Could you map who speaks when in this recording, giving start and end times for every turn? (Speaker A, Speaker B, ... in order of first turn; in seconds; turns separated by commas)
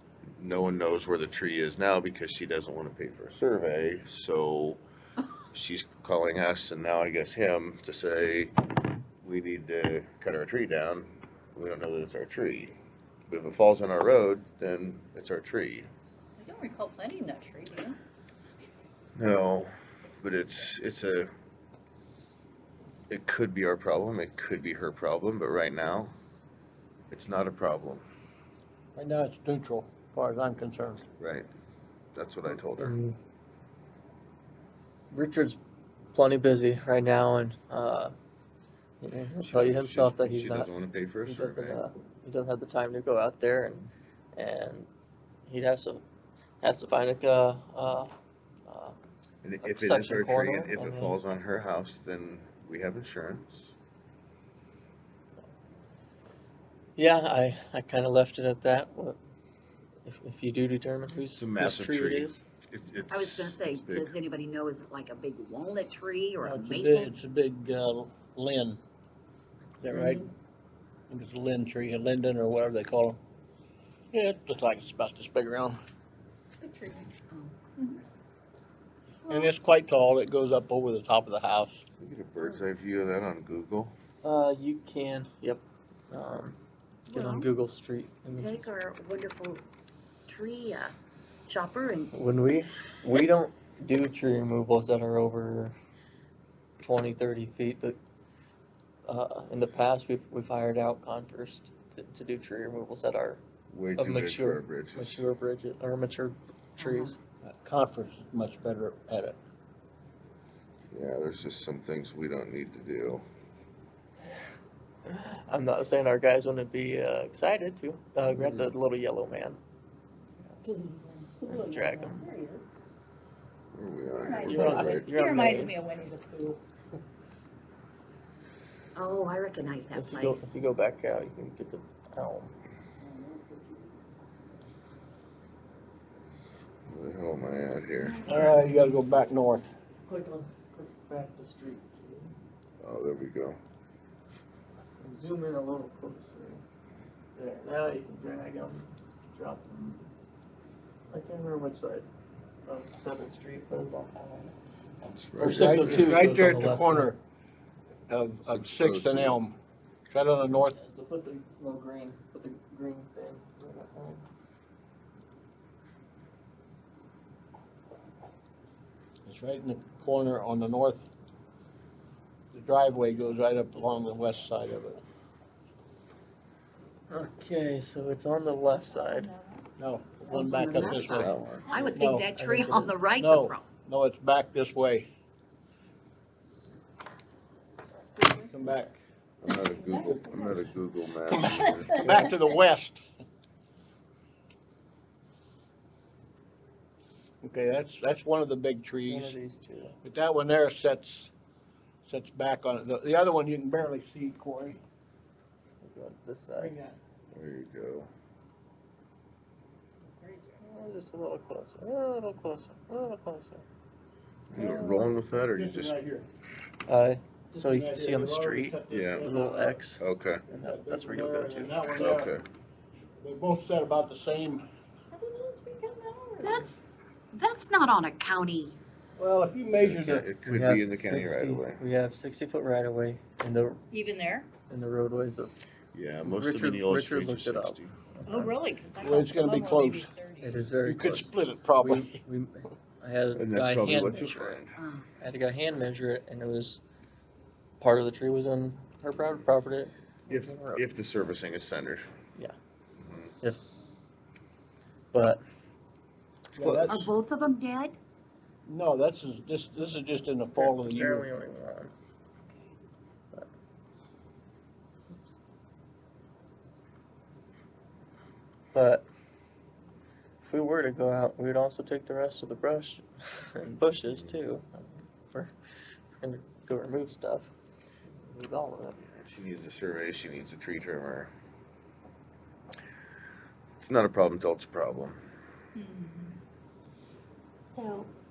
Speaker A: 0.4-4.8, Speaker A: 5.5-8.6, Speaker A: 9.2-12.7, Speaker A: 13.3-15.9, Speaker B: 16.4-18.0, Speaker A: 19.2-21.3, Speaker A: 23.1-26.1, Speaker A: 27.1-28.1, Speaker C: 29.0-31.1, Speaker A: 31.2-31.5, Speaker A: 32.1-33.0, Speaker D: 32.8-33.2, Speaker D: 35.1-35.6, Speaker D: 36.1-38.1, Speaker D: 39.0-40.7, Speaker A: 39.4-41.8, Speaker D: 41.2-44.9, Speaker D: 45.5-46.0, Speaker D: 46.6-48.1, Speaker D: 48.7-49.0, Speaker A: 49.4-53.7, Speaker D: 49.6-51.2, Speaker D: 57.0-59.2, Speaker D: 60.0-62.4, Speaker A: 61.4-64.1, Speaker E: 63.1-67.1, Speaker C: 66.4-68.8, Speaker C: 69.8-70.3, Speaker C: 71.1-73.2, Speaker C: 74.1-75.8, Speaker B: 76.6-77.1, Speaker E: 77.3-77.8, Speaker C: 79.3-81.8, Speaker A: 82.0-83.9, Speaker D: 84.2-86.6, Speaker E: 87.1-87.5, Speaker D: 87.1-88.7, Speaker E: 88.3-89.6, Speaker E: 90.3-91.0, Speaker E: 91.5-92.1, Speaker D: 92.1-95.8, Speaker D: 96.8-98.0, Speaker D: 99.1-103.4, Speaker A: 103.7-105.3, Speaker D: 104.0-107.2, Speaker E: 106.8-107.2, Speaker C: 107.4-109.4, Speaker A: 110.9-113.2, Speaker D: 115.1-119.6, Speaker A: 118.2-118.7, Speaker B: 120.6-122.6, Speaker D: 121.5-122.2, Speaker A: 123.7-125.1, Speaker B: 124.2-126.6, Speaker D: 124.4-125.8, Speaker E: 128.9-130.5, Speaker D: 129.9-132.5, Speaker B: 133.0-133.8, Speaker A: 136.9-138.5, Speaker C: 138.3-139.7, Speaker D: 138.3-138.6, Speaker D: 140.1-142.3, Speaker A: 142.8-143.6, Speaker D: 145.0-146.6, Speaker D: 147.4-150.1, Speaker D: 151.1-152.1, Speaker D: 152.7-154.6, Speaker A: 155.1-156.2, Speaker D: 155.4-157.1, Speaker C: 155.4-157.2, Speaker C: 158.1-159.6, Speaker A: 158.5-159.4, Speaker C: 160.1-160.8, Speaker D: 160.7-164.2, Speaker C: 169.2-171.1, Speaker C: 172.5-175.0, Speaker D: 177.1-179.3, Speaker B: 179.1-179.6, Speaker C: 179.8-181.4, Speaker E: 180.3-183.6, Speaker A: 180.9-181.7, Speaker C: 181.9-182.3, Speaker D: 182.1-183.1, Speaker C: 183.1-185.1, Speaker B: 188.2-188.5, Speaker C: 188.4-189.0, Speaker A: 189.4-192.3, Speaker B: 189.9-190.4, Speaker C: 189.9-190.2, Speaker C: 191.8-193.0, Speaker C: 197.4-199.3, Speaker D: 199.0-200.0, Speaker C: 200.0-201.3, Speaker C: 202.1-204.8, Speaker D: 205.8-206.7, Speaker C: 206.6-207.0, Speaker A: 207.3-208.1, Speaker D: 210.6-213.6, Speaker A: 214.5-216.0, Speaker D: 214.6-215.1, Speaker C: 215.5-216.3, Speaker D: 216.9-222.1, Speaker C: 217.5-219.8, Speaker A: 218.9-219.3, Speaker A: 220.0-220.4, Speaker C: 220.5-222.4, Speaker A: 221.9-222.4, Speaker C: 223.2-224.7, Speaker B: 225.1-226.7, Speaker E: 226.4-228.8, Speaker C: 229.2-230.2, Speaker A: 229.7-231.8, Speaker D: 230.0-233.8, Speaker B: 233.9-234.5, Speaker D: 234.7-235.5, Speaker A: 235.9-237.9, Speaker D: 236.2-238.5, Speaker B: 238.3-240.6, Speaker C: 239.0-240.1, Speaker D: 240.4-244.6, Speaker C: 240.8-242.2, Speaker A: 243.3-244.8, Speaker E: 244.8-245.1, Speaker D: 245.2-246.8, Speaker D: 247.8-250.8, Speaker A: 250.3-252.1, Speaker A: 253.0-253.3, Speaker D: 255.1-255.4, Speaker A: 256.6-256.9, Speaker C: 256.6-257.1, Speaker E: 256.9-258.0, Speaker C: 258.7-261.3, Speaker D: 260.6-261.9, Speaker D: 268.7-269.1, Speaker D: 270.4-275.5, Speaker A: 274.1-274.4, Speaker D: 276.2-277.5, Speaker D: 278.2-279.0, Speaker A: 279.0-281.3, Speaker A: 283.8-285.2, Speaker B: 285.8-286.4, Speaker E: 287.6-288.1